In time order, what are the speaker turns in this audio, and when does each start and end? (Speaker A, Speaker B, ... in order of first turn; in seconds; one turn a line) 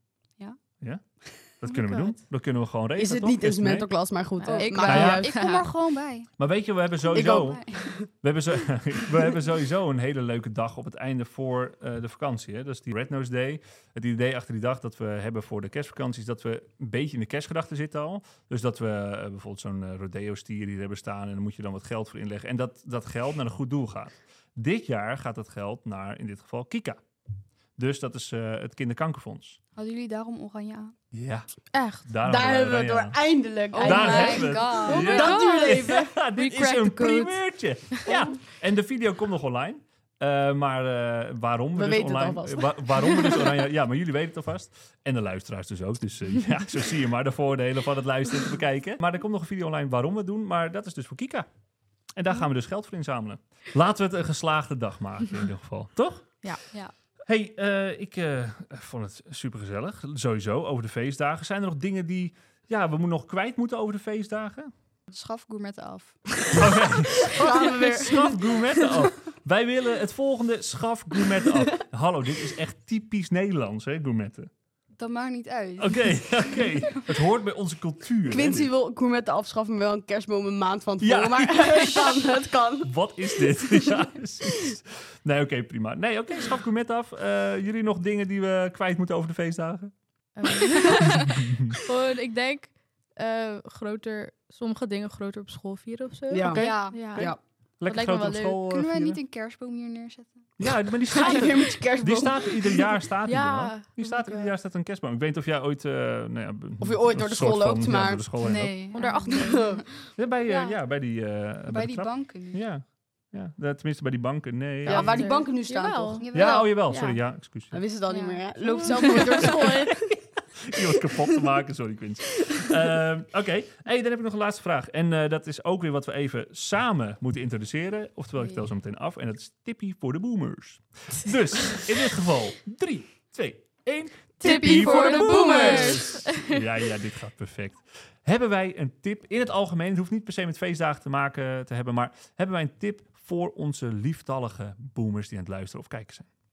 Speaker A: 0.8-3.9
Speaker B: 1.7-2.2
Speaker C: 3.0-5.4
Speaker B: 4.4-5.7
Speaker D: 4.6-6.3
Speaker A: 4.8-5.3
Speaker A: 6.4-27.0
Speaker C: 7.1-8.1
Speaker D: 7.2-7.9
Speaker A: 27.8-29.6
Speaker D: 29.8-30.9
Speaker A: 31.1-33.2
Speaker B: 31.7-32.1
Speaker C: 32.2-36.1
Speaker D: 33.7-35.6
Speaker A: 33.8-51.5
Speaker B: 34.2-38.1
Speaker C: 41.8-43.6
Speaker A: 52.2-56.8
Speaker A: 57.3-64.7
Speaker D: 65.1-66.5
Speaker A: 66.6-74.5
Speaker C: 67.3-68.6
Speaker D: 75.0-76.7
Speaker A: 75.8-78.7
Speaker C: 78.3-82.9
Speaker A: 81.0-89.9
Speaker B: 90.3-97.3
Speaker A: 90.6-91.8
Speaker C: 96.3-97.4
Speaker D: 96.5-97.3
Speaker A: 96.5-99.2
Speaker B: 97.8-98.7
Speaker D: 98.7-100.6
Speaker A: 100.6-108.8
Speaker C: 101.2-102.8
Speaker B: 103.2-104.5
Speaker C: 106.8-108.4
Speaker D: 108.4-109.7
Speaker B: 108.9-109.8
Speaker C: 109.3-109.9
Speaker A: 110.2-115.3
Speaker B: 110.5-110.8
Speaker D: 111.7-112.6
Speaker C: 114.9-116.2
Speaker B: 114.9-117.2
Speaker D: 116.2-116.7
Speaker A: 116.3-117.8
Speaker C: 117.7-120.2
Speaker D: 118.1-119.6
Speaker B: 118.7-119.5
Speaker A: 119.3-146.3
Speaker D: 134.4-136.1
Speaker B: 134.4-136.6